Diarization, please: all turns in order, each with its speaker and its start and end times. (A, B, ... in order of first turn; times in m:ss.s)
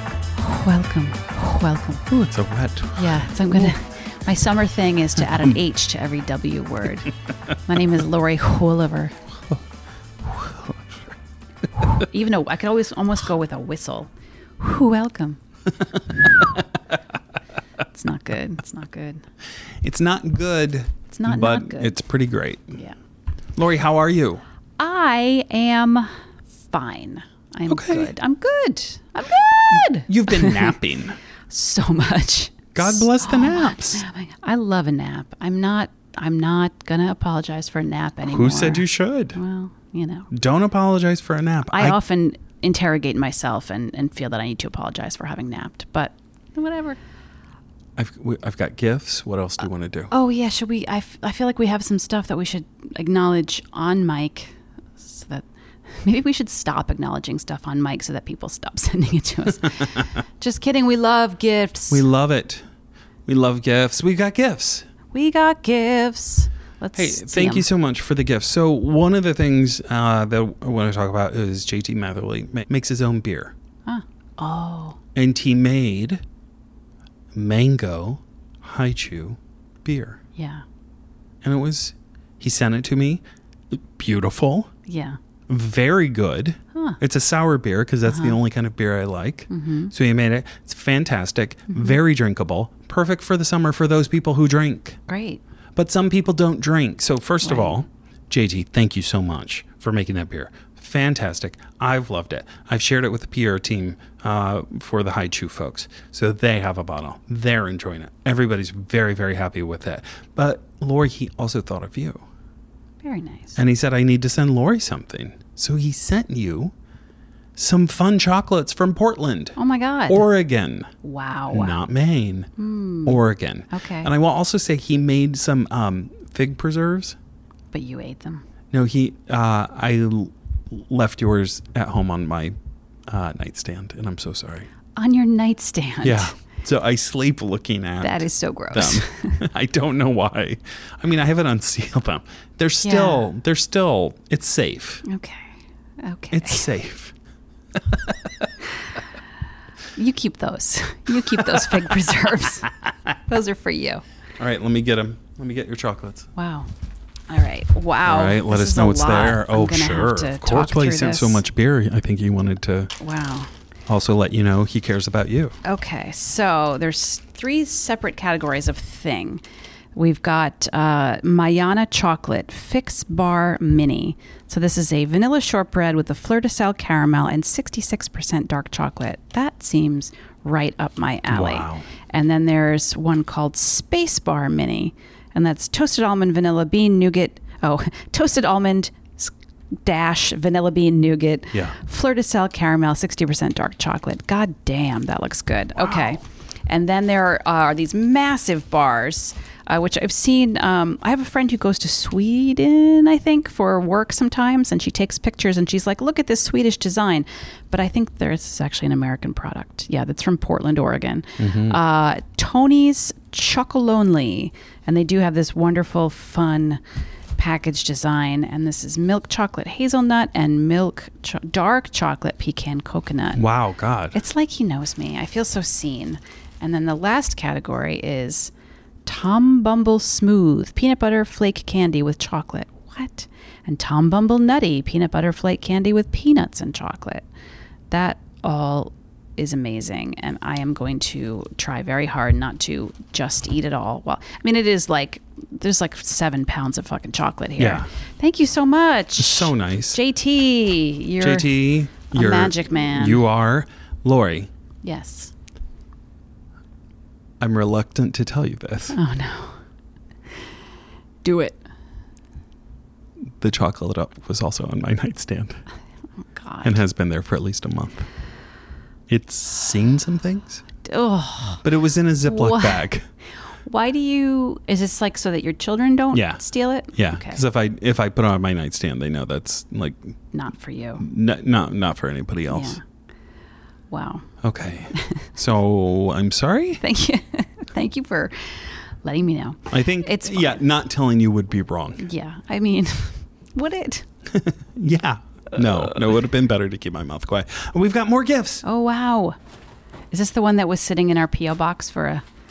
0:00.4-0:02.1 A
0:02.1-0:03.8 B
0:03.0-0:09.1 A
0:10.2-0:11.2 B
0:11.8-0:15.4 A
0:16.2-0:16.4 B
0:17.9-0:19.2 A
0:19.8-0:22.8 B
0:21.1-0:22.0 A
0:23.6-0:24.4 B
0:24.8-0:30.7 A
0:27.7-0:28.1 B
0:29.7-0:31.2 B
0:31.5-0:40.3 A
0:32.7-0:34.0 B
0:38.2-0:39.4 B
0:40.3-0:42.0 B
0:41.6-0:47.0 A
0:48.0-0:50.1 B
0:50.1-0:55.4 A
0:56.0-1:02.0 A
0:59.6-1:00.0 B
1:01.9-1:02.6 B
1:03.3-1:04.8 B
1:05.1-1:07.6 A
1:07.0-1:13.5 B
1:13.8-1:15.0 A
1:15.1-1:16.2 B
1:17.3-1:20.2 B
1:20.4-1:20.6 A
1:21.4-1:24.7 B
1:24.9-1:25.2 A
1:25.5-1:35.0 B
1:26.7-1:27.0 A
1:28.1-1:28.4 A
1:29.5-1:29.9 A
1:35.1-1:35.4 A
1:35.7-1:52.2 B
1:37.4-1:37.8 A
1:53.0-1:53.6 A
1:53.6-1:56.7 B
1:57.6-1:59.6 B
1:59.6-2:00.2 A
2:00.1-2:00.9 B
2:01.0-2:01.7 A
2:01.5-2:02.5 B
2:02.6-2:04.1 A
2:03.0-2:07.2 B
2:07.7-2:08.4 A
2:08.7-2:12.5 B
2:13.1-2:14.7 B
2:14.9-2:16.3 A
2:16.0-2:25.0 B
2:18.0-2:19.4 A
2:22.8-2:23.2 A
2:25.0-2:26.7 A
2:26.3-2:27.1 B
2:27.7-2:28.5 B
2:29.9-2:32.7 A
2:31.4-2:31.8 B
2:33.3-2:34.0 A
2:34.4-2:36.3 B
2:36.4-2:36.7 A
2:37.3-2:41.4 A
2:38.0-2:42.9 B
2:43.0-2:43.5 A
2:43.9-2:45.5 B
2:45.6-2:49.4 A
2:50.0-3:09.3 A
3:01.3-3:01.8 B
3:09.8-3:36.8 A
3:15.8-3:16.1 B
3:31.4-3:31.8 B
3:37.4-3:43.4 A
3:43.3-3:44.2 B
3:44.1-3:48.5 A
3:49.0-3:57.2 A
3:57.9-4:11.5 A
4:07.6-4:07.9 B
4:09.2-4:10.0 B
4:11.2-4:14.5 B
4:12.1-4:13.2 A
4:14.8-4:15.3 A
4:17.4-4:19.0 B
4:18.9-4:19.6 A
4:21.2-4:21.6 A
4:23.4-4:25.6 B
4:26.3-4:26.8 A
4:26.6-4:28.1 B
4:29.1-4:30.6 B
4:30.8-4:31.6 A
4:31.6-4:33.0 B
4:32.2-4:32.9 A
4:33.6-4:37.4 A
4:36.1-4:36.4 B
4:36.9-4:40.1 B
4:40.3-4:41.0 A
4:41.0-4:42.8 B
4:42.5-4:42.8 A
4:43.9-4:44.3 A
4:44.4-4:46.8 B
4:44.9-4:45.2 A
4:46.8-4:50.6 A
4:49.7-4:52.0 B
4:52.0-4:54.0 A
4:54.3-4:58.6 B
4:58.6-4:59.4 A
5:00.1-5:02.2 A